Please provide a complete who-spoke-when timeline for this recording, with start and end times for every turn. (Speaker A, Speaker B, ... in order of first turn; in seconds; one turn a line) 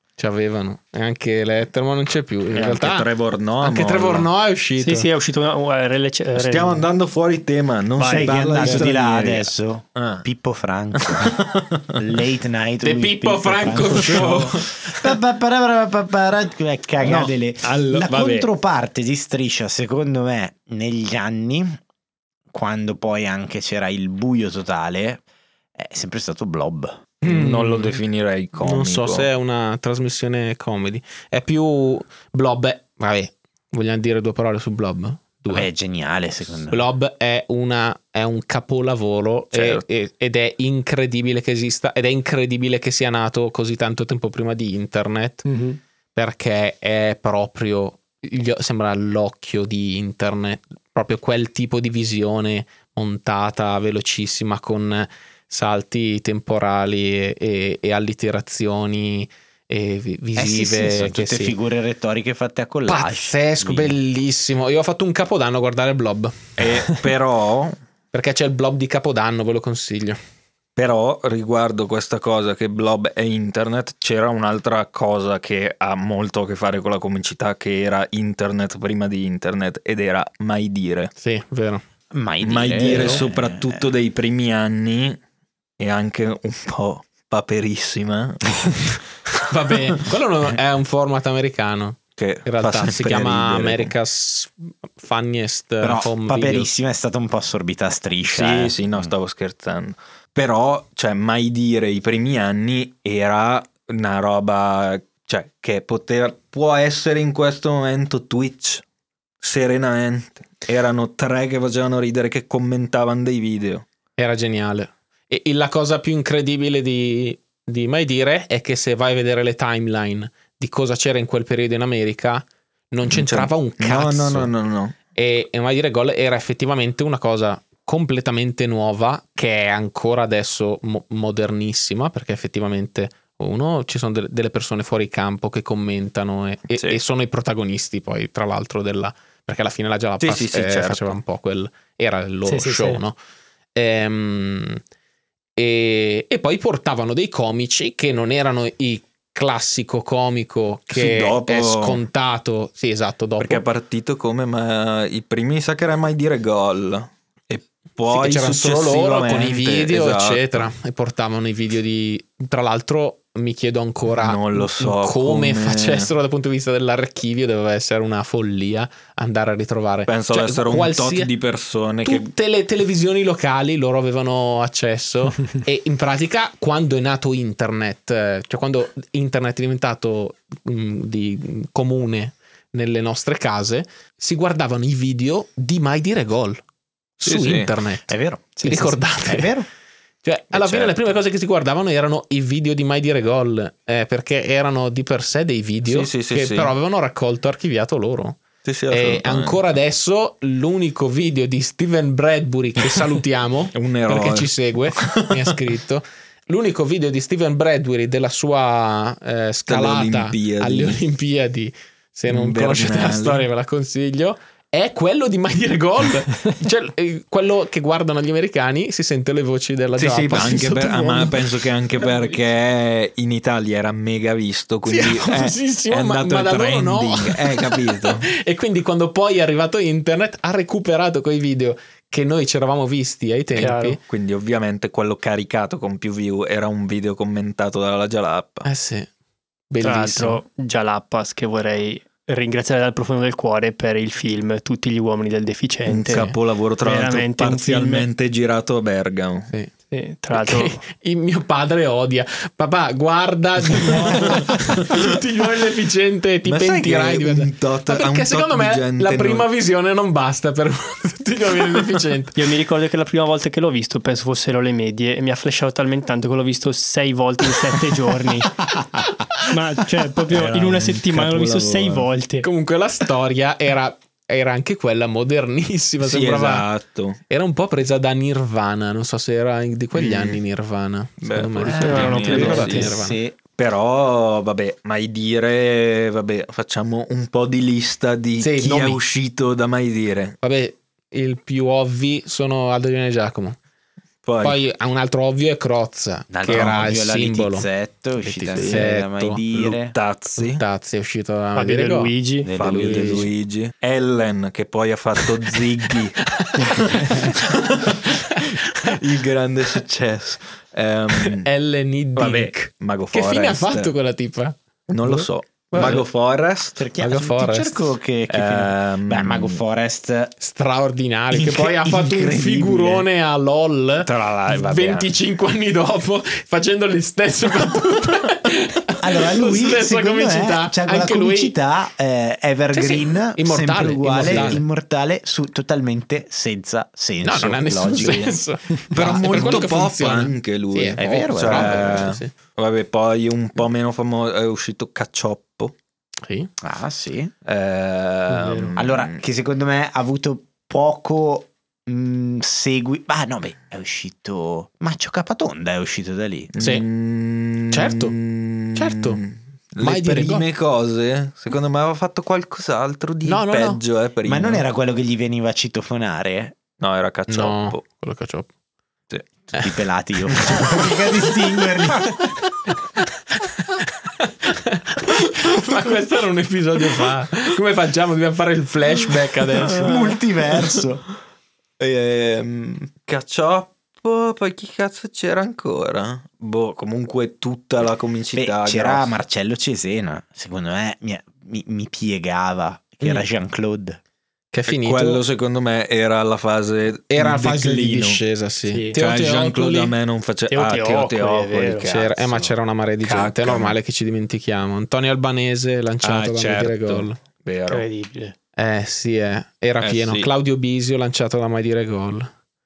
Speaker A: 0.2-3.1
Speaker B: 2.5-4.3
Speaker A: 3.6-5.1
Speaker C: 4.8-6.9
Speaker B: 6.4-10.2
Speaker C: 8.0-8.9
Speaker D: 8.1-11.4
Speaker B: 11.0-12.0
Speaker D: 11.9-21.8
Speaker A: 12.8-14.7
Speaker B: 13.9-14.5
Speaker B: 17.0-18.5
Speaker D: 22.5-25.2
Speaker D: 25.8-27.0
Speaker A: 27.2-28.0
Speaker B: 27.2-29.3
Speaker A: 28.6-35.7
Speaker D: 35.5-36.9
Speaker A: 36.7-45.5
Speaker B: 39.5-39.8
Speaker C: 45.5-45.8
Speaker A: 46.1-61.5
Speaker D: 60.4-64.0
Speaker A: 62.9-66.5
Speaker B: 66.6-67.8
Speaker A: 68.1-70.2
Speaker B: 70.8-81.1
Speaker A: 81.2-81.8
Speaker D: 82.1-83.9
Speaker B: 82.4-85.2
Speaker A: 82.8-83.2
Speaker B: 85.8-89.0
Speaker A: 89.5-96.7
Speaker B: 92.2-93.9
Speaker D: 95.8-99.1
Speaker B: 98.3-108.8
Speaker B: 109.4-113.8
Speaker A: 114.2-124.5
Speaker B: 123.1-125.0
Speaker A: 125.2-143.2
Speaker B: 136.7-137.0
Speaker B: 140.2-141.2
Speaker C: 142.5-143.0
Speaker A: 143.8-144.8
Speaker A: 145.6-153.6
Speaker B: 150.9-152.0
Speaker B: 153.4-160.7
Speaker A: 158.1-171.3
Speaker B: 164.1-166.1
Speaker B: 170.1-172.3
Speaker A: 172.1-186.6
Speaker A: 187.2-189.5
Speaker B: 187.2-187.7
Speaker D: 188.1-189.7
Speaker A: 190.2-221.5
Speaker B: 190.5-190.9
Speaker B: 195.8-196.7
Speaker B: 198.6-199.7
Speaker B: 203.7-205.4
Speaker B: 209.7-211.0
Speaker B: 212.3-213.5
Speaker B: 220.0-228.3
Speaker A: 224.9-234.0
Speaker C: 233.6-234.0
Speaker B: 234.0-238.7
Speaker A: 238.7-239.1
Speaker A: 239.7-240.4
Speaker C: 239.8-248.1
Speaker B: 245.9-249.5
Speaker C: 249.9-250.8
Speaker A: 250.3-262.4
Speaker B: 254.0-254.6
Speaker B: 256.5-259.5
Speaker C: 262.4-268.7
Speaker C: 269.4-272.5
Speaker B: 270.3-272.1
Speaker A: 272.4-276.7
Speaker B: 276.0-277.2
Speaker A: 277.3-283.2
Speaker B: 279.9-280.4
Speaker B: 281.2-282.9
Speaker D: 281.7-283.4
Speaker C: 281.7-282.9
Speaker B: 283.6-290.4
Speaker A: 288.4-289.0
Speaker A: 290.4-293.6
Speaker B: 294.2-294.6
Speaker A: 294.4-297.7
Speaker D: 296.3-299.9
Speaker B: 296.4-296.9
Speaker A: 298.2-299.4
Speaker B: 298.5-298.9
Speaker B: 299.5-300.6
Speaker A: 300.4-303.3
Speaker C: 301.6-302.5
Speaker D: 302.4-303.3
Speaker B: 302.5-311.5
Speaker A: 306.3-307.4
Speaker A: 308.1-309.0
Speaker A: 311.2-316.0
Speaker B: 312.2-313.9
Speaker B: 314.9-316.8
Speaker D: 316.8-320.3
Speaker A: 317.0-317.9
Speaker B: 318.3-319.6
Speaker A: 320.4-331.6
Speaker D: 321.3-323.1
Speaker B: 324.0-325.1
Speaker D: 329.0-338.4
Speaker A: 332.7-334.6
Speaker B: 334.2-334.6
Speaker A: 337.2-342.3
Speaker B: 338.0-338.3
Speaker B: 338.9-345.7
Speaker D: 339.1-339.7
Speaker D: 341.0-342.1
Speaker A: 346.2-346.5
Speaker D: 346.6-347.3
Speaker B: 347.4-349.2
Speaker C: 348.3-348.7
Speaker D: 348.8-356.5
Speaker B: 356.5-364.6
Speaker A: 356.6-356.9
Speaker A: 357.7-358.1
Speaker A: 358.8-359.2
Speaker A: 359.8-360.5
Speaker A: 363.2-363.8
Speaker D: 364.2-366.6
Speaker B: 366.8-367.8
Speaker A: 367.3-368.5
Speaker D: 369.6-372.2
Speaker B: 370.5-370.9
Speaker A: 373.4-380.0
Speaker D: 379.6-381.0
Speaker B: 379.7-380.8
Speaker B: 381.8-389.1
Speaker D: 388.3-394.0
Speaker A: 394.5-395.2
Speaker B: 394.7-398.2
Speaker A: 397.1-399.9
Speaker C: 398.7-399.0
Speaker B: 398.9-403.8
Speaker C: 400.5-401.9
Speaker A: 401.9-407.2
Speaker B: 406.0-407.9
Speaker C: 407.7-408.4
Speaker A: 408.6-412.3
Speaker B: 409.8-410.3